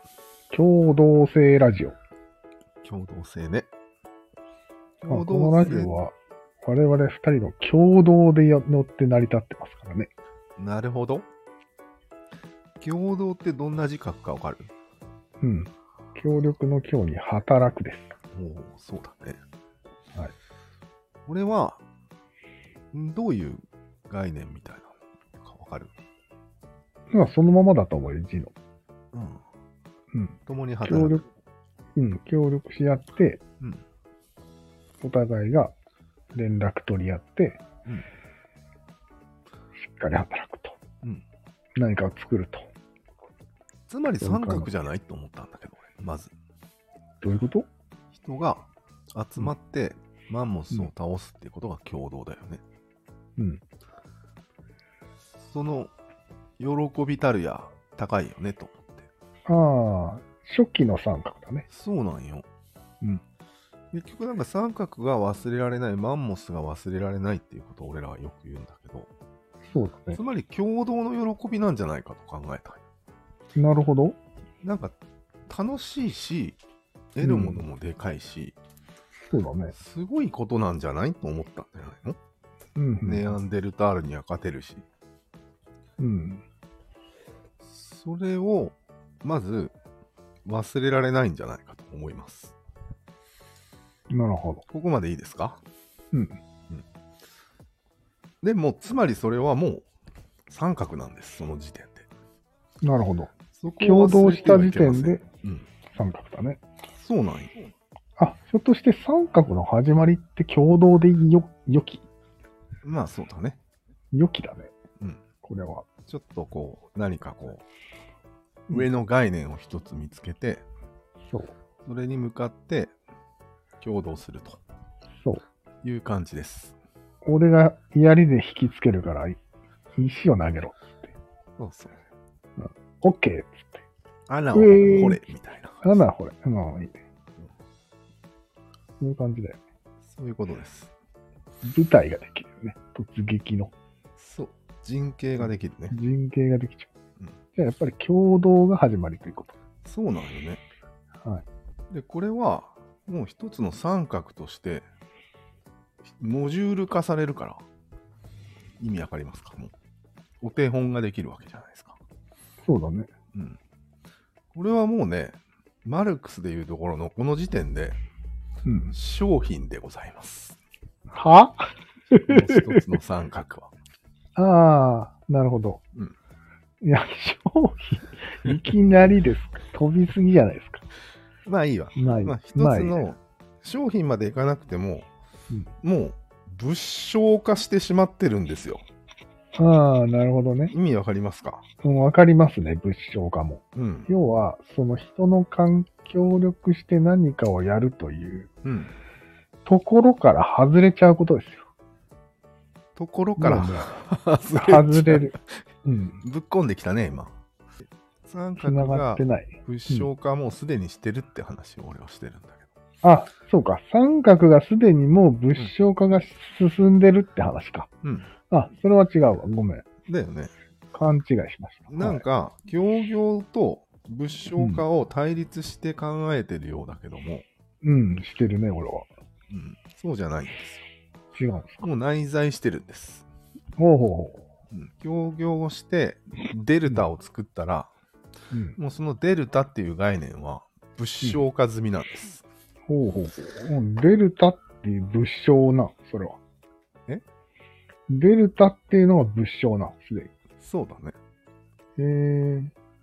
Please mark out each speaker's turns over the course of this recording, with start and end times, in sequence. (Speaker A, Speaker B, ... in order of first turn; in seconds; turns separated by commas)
Speaker A: 0.5-2.0, Speaker B: 2.8-3.7, Speaker B: 5.0-6.0, Speaker A: 5.0-10.1, Speaker B: 10.6-11.3, Speaker B: 12.8-14.7, Speaker A: 15.4-18.1, Speaker B: 18.3-19.4, Speaker B: 21.2-21.8, Speaker B: 22.9-25.9, Speaker A: 27.1-28.5, Speaker B: 29.1-29.4, Speaker A: 30.1-31.2, Speaker B: 30.4-31.2, Speaker A: 31.9-33.4, Speaker A: 35.0-35.7, Speaker A: 36.3-37.6, Speaker A: 39.8-40.8, Speaker A: 41.8-42.7, Speaker B: 43.9-46.3, Speaker A: 44.2-44.7, Speaker A: 47.2-47.7, Speaker B: 48.1-52.6, Speaker A: 53.4-53.6, Speaker B: 55.4-55.9, Speaker B: 56.6-59.1, Speaker A: 59.5-61.7, Speaker B: 61.7-62.5, Speaker B: 63.9-69.1, Speaker A: 69.7-70.2, Speaker B: 70.1-72.8, Speaker A: 73.5-74.2, Speaker B: 74.6-74.9, Speaker B: 75.5-76.6, Speaker B: 77.2-78.5, Speaker A: 77.2-77.7, Speaker A: 79.3-79.7, Speaker B: 79.7-82.2, Speaker A: 82.8-83.3, Speaker B: 83.0-84.8, Speaker A: 86.0-86.4, Speaker B: 87.6-89.7, Speaker B: 90.5-92.5, Speaker A: 94.1-94.6, Speaker B: 94.7-95.6, Speaker A: 96.1-96.4, Speaker B: 98.4-99.8, Speaker B: 100.5-102.1, Speaker A: 102.8-105.2, Speaker B: 103.5-105.7, Speaker A: 105.9-106.6, Speaker B: 106.9-107.6, Speaker A: 108.2-112.0, Speaker B: 112.8-113.6, Speaker A: 114.1-114.7, Speaker A: 115.4-115.8, Speaker B: 116.1-117.6, Speaker B: 118.7-120.6, Speaker A: 121.3-121.5, Speaker B: 121.8-122.9, Speaker B: 123.8-124.6, Speaker B: 125.8-126.8, Speaker A: 127.2-129.4, Speaker A: 129.9-131.1, Speaker B: 131.6-132.0, Speaker A: 132.6-133.8, Speaker B: 134.3-136.0, Speaker A: 134.5-135.2, Speaker A: 135.8-137.0, Speaker A: 139.0-139.6, Speaker B: 140.0-140.9, Speaker A: 141.6-143.7, Speaker B: 144.2-145.9, Speaker A: 145.4-146.9, Speaker A: 147.5-149.5, Speaker B: 149.8-150.6, Speaker B: 151.9-154.8, Speaker B: 156.0-157.6, Speaker B: 158.8-159.7, Speaker B: 160.4-161.9, Speaker A: 162.6-163.1, Speaker B: 163.3-163.6, Speaker B: 164.5-168.0, Speaker A: 168.6-168.9, Speaker B: 168.9-170.6, Speaker A: 171.1-172.8, Speaker B: 172.2-173.7, Speaker A: 174.3-175.8, Speaker A: 176.8-180.8, Speaker B: 181.4-185.1, Speaker A: 181.9-183.1, Speaker B: 185.8-188.8, Speaker A: 189.5-190.7, Speaker B: 190.7-191.6, Speaker A: 191.8-198.5, Speaker B: 193.7-194.1, Speaker B: 198.6-198.9, Speaker A: 199.6-201.7, Speaker B: 202.9-205.4, Speaker A: 203.4-203.9, Speaker A: 204.5-206.2, Speaker B: 206.2-207.3, Speaker B: 208.3-212.7, Speaker A: 208.6-210.1, Speaker A: 213.0-217.9, Speaker B: 218.0-218.3, Speaker A: 218.5-219.8, Speaker B: 220.1-220.5, Speaker A: 220.9-222.2, Speaker B: 221.9-227.4, Speaker A: 224.6-224.8, Speaker A: 227.8-229.1, Speaker B: 229.5-230.8, Speaker A: 231.3-231.9, Speaker B: 231.8-233.2, Speaker A: 233.8-234.5, Speaker B: 234.7-237.9, Speaker A: 238.5-238.8, Speaker B: 238.8-242.4, Speaker A: 242.9-246.4, Speaker A: 248.1-250.3, Speaker B: 250.6-251.2, Speaker A: 252.0-252.7